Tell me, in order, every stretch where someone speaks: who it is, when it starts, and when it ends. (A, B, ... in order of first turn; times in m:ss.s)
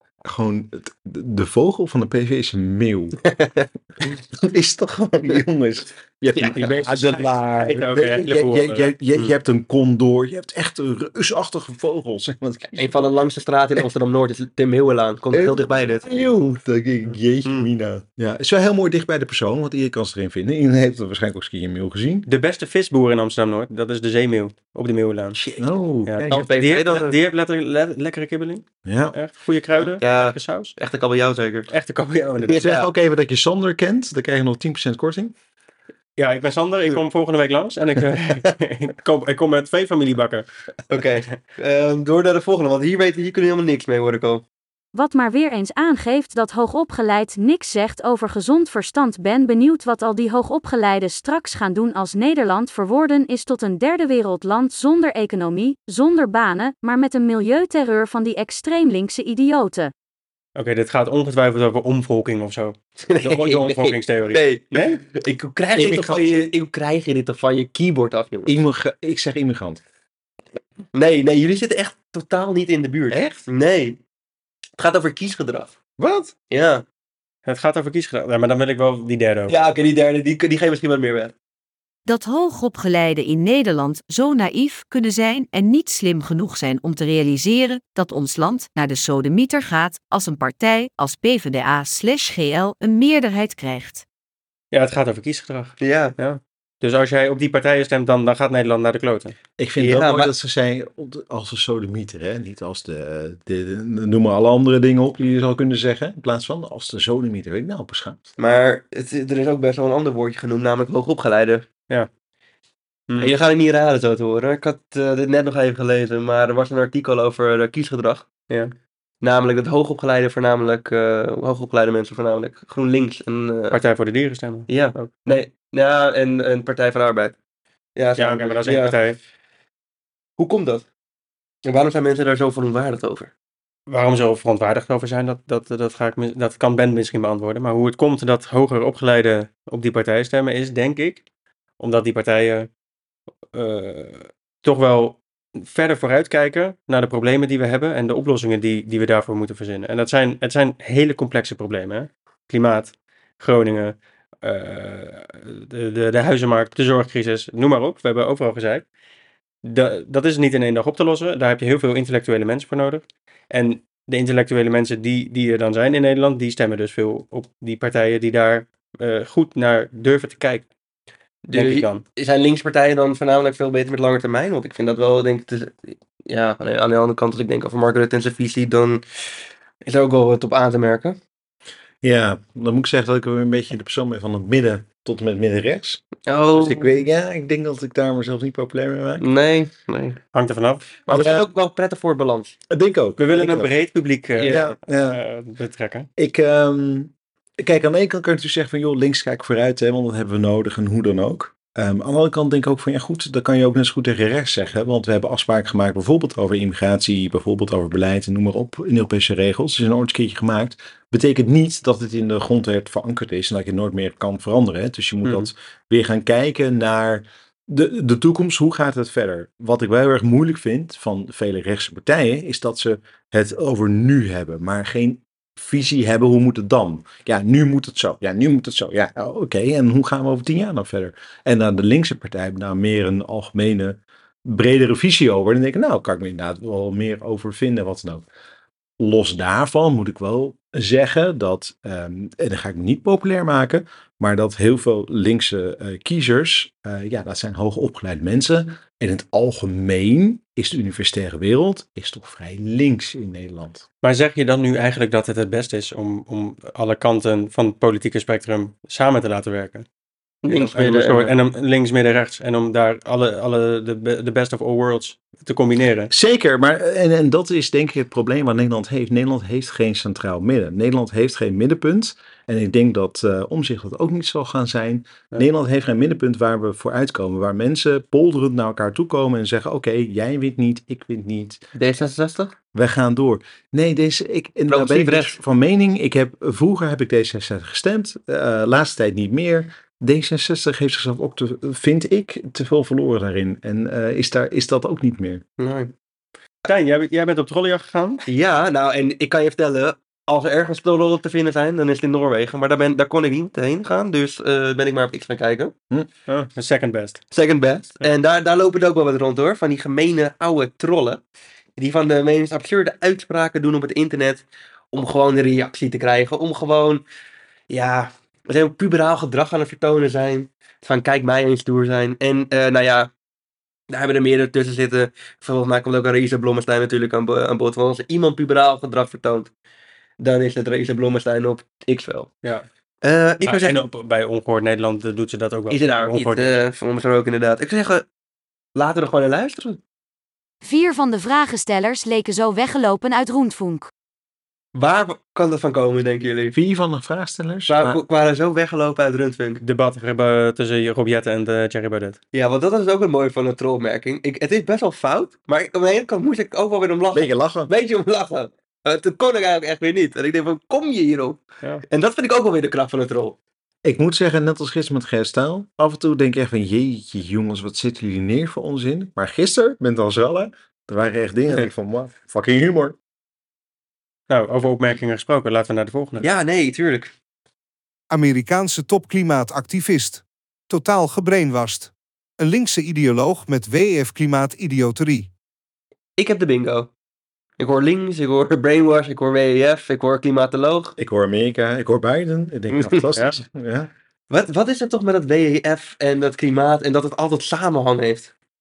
0:00.2-0:03.2 A
0:03.3-0:03.7 B
0:04.3-0:13.1 A
0:06.4-0:07.8 B
0:07.6-0:09.3 C
0:12.7-0:16.1 B
0:15.3-0:22.3 A
0:22.2-0:25.4 C
0:25.3-0:25.6 B
0:25.6-0:26.5 A
0:26.1-0:30.7 C
0:26.3-0:27.2 B
0:28.8-0:29.2 A
0:30.0-0:31.7 B
0:31.7-0:32.6 C
0:32.4-0:32.9 B
0:32.6-0:35.3 A
0:36.2-0:40.4 C
0:40.9-0:44.4 B
0:44.9-0:59.9 D
1:00.6-1:05.0 C
1:03.0-1:08.6 B
1:05.7-1:06.5 A
1:08.4-1:09.8 A
1:10.9-1:14.0 B
1:13.1-1:13.4 A
1:14.8-1:15.7 B
1:16.0-1:16.3 A
1:16.5-1:16.8 B
1:17.4-1:19.6 C
1:19.5-1:21.3 B
1:22.0-1:34.0 E
1:34.7-1:39.4 C
1:35.8-1:36.1 B
1:39.6-1:48.2 A
1:39.8-1:40.3 B
1:48.4-1:51.6 B
1:53.2-1:58.3 B
1:58.5-1:58.7 C
1:59.2-2:03.8 B
2:03.7-2:05.2 C
2:04.7-2:07.3 B
2:08.0-2:09.0 B
2:08.2-2:09.2 C
2:10.4-2:10.8 B
2:11.6-2:13.3 B
2:13.9-2:21.2 C
2:21.8-2:22.7 C
2:23.5-2:38.8 C
2:39.6-2:50.6 C
2:51.4-2:59.0 B
2:51.5-2:52.0 C
2:59.8-3:01.2 B
3:02.0-3:06.0 A
3:06.3-3:06.9 B
3:06.5-3:09.2 A
3:09.2-3:10.2 B
3:10.3-3:10.8 C
3:11.0-3:12.6 B
3:11.1-3:11.5 A
3:12.7-3:13.7 A
3:13.2-3:16.1 C
3:14.4-3:14.7 B
3:14.4-3:15.2 A
3:16.2-3:58.2 A
3:35.2-3:35.5 C
3:59.0-4:13.8 A
4:14.0-4:19.8 C
4:20.4-4:26.1 C
4:20.5-4:21.3 B
4:26.1-4:41.6 A
4:41.7-4:42.5 B
4:42.7-4:55.4 A
4:44.7-4:45.4 B
4:55.6-4:55.9 B
4:56.6-4:58.2 C
4:58.3-5:05.7 B
5:06.3-5:07.2 C
5:07.3-5:11.2 B
5:11.8-5:17.0 B
5:17.7-5:23.1 B
5:23.9-5:29.5 B
5:30.2-5:32.3 B
5:33.0-5:33.8 B
5:33.4-5:36.6 C
5:35.7-5:38.0 B
5:38.7-5:39.8 B
5:40.6-5:43.9 D
5:44.7-5:46.5 B
5:46.5-5:48.0 A
5:47.7-5:49.6 B
5:49.6-5:52.2 C
5:52.3-6:03.4 B
5:57.1-5:57.7 A
6:03.8-6:13.0 A
6:14.3-6:16.3 C
6:16.2-6:17.1 B
6:18.1-6:25.3 F
6:26.2-6:26.9 B
6:27.6-6:30.9 B
6:31.0-6:33.9 A
6:32.7-6:33.0 B
6:34.3-6:38.3 B